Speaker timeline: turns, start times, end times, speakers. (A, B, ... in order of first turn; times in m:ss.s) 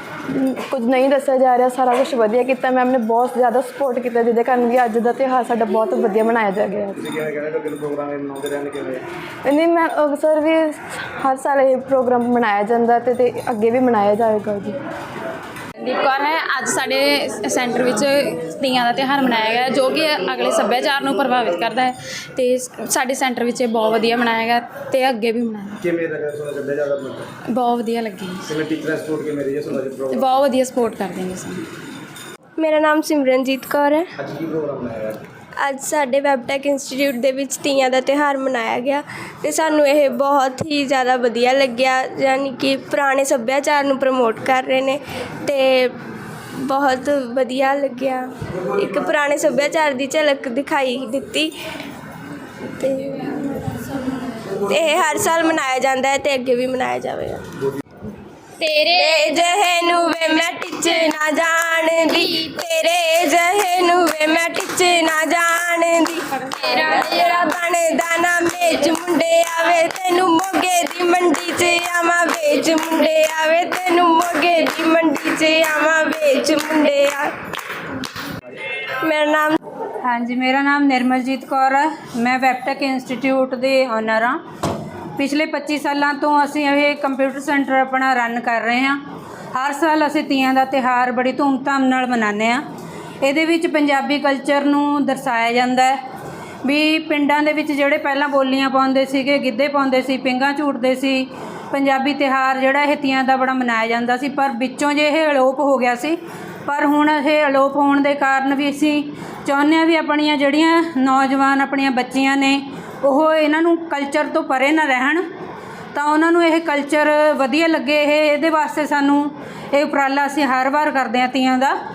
0:00.4-0:07.0 A
0:07.0-0:09.0 B
0:09.5-0:14.7 A
0:15.8-0:25.8 C
0:25.8-0:27.3 B
0:27.5-0:28.5 C
0:28.5-0:30.2 B
0:30.1-0:31.7 C
0:32.6-0:34.1 D
0:34.2-0:35.2 B
0:35.6-0:45.9 D
0:46.7-0:51.5 D
0:52.8-0:53.3 D
0:54.7-0:57.4 D
0:58.7-1:17.3 D
1:19.0-1:19.6 D
1:20.0-1:24.4 E
1:25.2-1:29.0 E
1:29.5-1:32.6 E
1:33.2-1:36.0 E
1:36.6-1:55.2 E
1:55.9-2:01.7 E